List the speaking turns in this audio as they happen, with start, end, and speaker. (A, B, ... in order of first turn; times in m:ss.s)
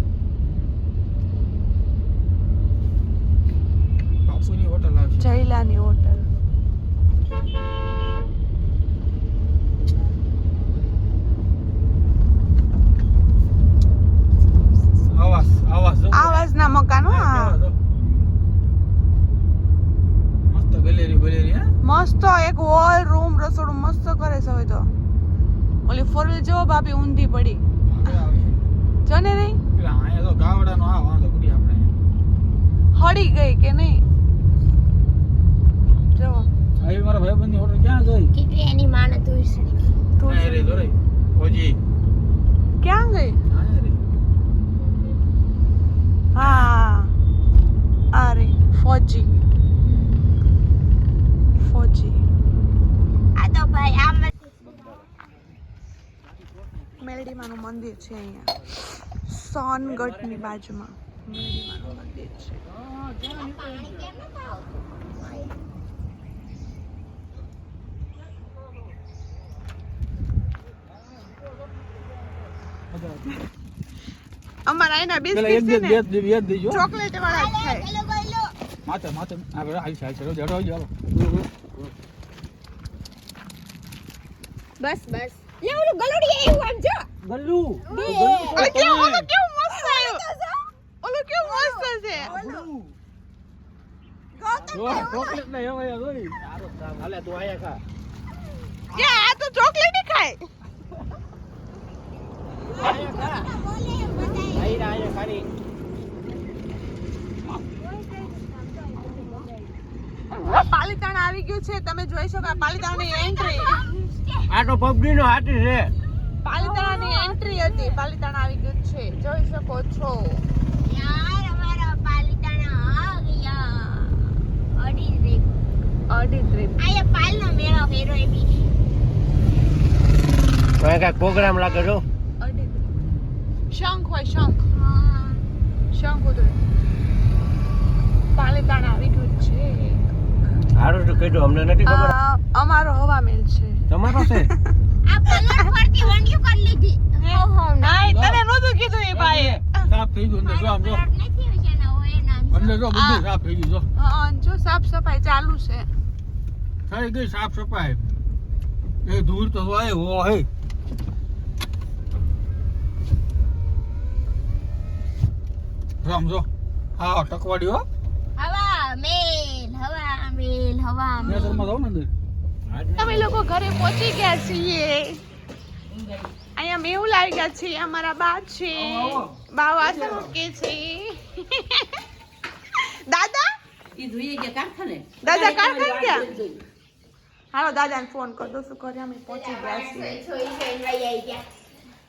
0:00.4-0:00.7 A
0:04.3-0:05.3 A
0:05.2-0:06.3 B
0:15.1-0:17.8 A
0:16.1-0:17.6 B
0:20.4-0:21.7 A
0:21.8-0:24.9 B
0:25.9-0:27.6 B
0:27.9-0:28.6 A
0:29.1-0:29.6 B
0:29.7-0:31.9 A
0:33.0-0:34.0 B
0:36.1-0:36.5 B
0:36.8-0:38.3 A
0:38.3-0:40.0 C
0:40.2-0:40.9 B
0:40.3-0:41.8 A
0:42.8-0:43.4 B
0:43.5-0:44.0 A
0:46.4-0:47.1 B
0:46.4-0:46.7 A
0:48.1-0:49.4 B
0:51.6-0:52.2 B
0:53.4-0:54.5 C
0:57.0-1:02.6 B
1:02.7-1:04.1 A
1:03.2-1:05.6 C
1:12.9-1:13.3 A
1:14.7-1:16.0 B
1:15.3-1:16.8 A
1:16.7-1:17.9 B
1:17.2-1:18.5 C
1:18.8-1:20.9 A
1:21.1-1:21.9 D
1:24.8-1:27.1 C
1:27.3-1:28.1 D
1:27.7-1:29.3 A
1:27.9-1:28.8 C
1:28.5-1:30.2 B
1:29.7-1:30.7 C
1:31.0-1:32.4 B
1:31.4-1:32.7 C
1:32.3-1:32.8 D
1:34.4-1:35.4 C
1:34.5-1:35.2 D
1:34.7-1:36.4 A
1:36.4-1:37.8 D
1:38.9-1:40.5 B
1:39.0-1:39.3 C
1:42.7-1:43.5 D
1:42.8-1:44.9 C
1:44.5-1:45.5 D
1:47.8-1:49.7 C
1:50.4-1:53.8 B
1:52.4-1:54.5 C
1:54.5-1:55.9 D
1:56.4-2:00.4 B
1:56.6-1:58.0 C
2:00.8-2:05.5 C
2:06.1-2:06.8 B
2:06.8-2:08.7 C
2:10.8-2:12.0 D
2:12.4-2:12.9 B
2:13.7-2:14.7 B
2:14.7-2:15.4 C
2:15.9-2:16.6 B
2:18.4-2:20.0 B
2:20.8-2:22.2 D
2:21.9-2:24.7 B
2:23.9-2:24.5 D
2:25.0-2:28.0 C
2:27.2-2:29.9 B
2:28.0-2:28.4 A
2:29.1-2:31.0 A
2:30.4-2:32.8 C
2:32.5-2:33.9 A
2:32.9-2:33.2 B
2:34.0-2:35.9 B
2:36.9-2:38.1 A
2:39.0-2:40.5 A
2:46.0-2:47.8 A
2:48.4-2:51.7 C
2:51.2-2:52.1 A
2:51.2-2:51.6 B
2:52.7-2:53.3 D
2:53.0-2:55.2 B
2:56.6-3:02.0 B
2:58.8-3:00.4 A
3:02.8-3:03.5 B
3:04.0-3:06.6 E
3:05.2-3:06.3 B
3:07.5-3:10.2 B
3:09.3-3:11.6 C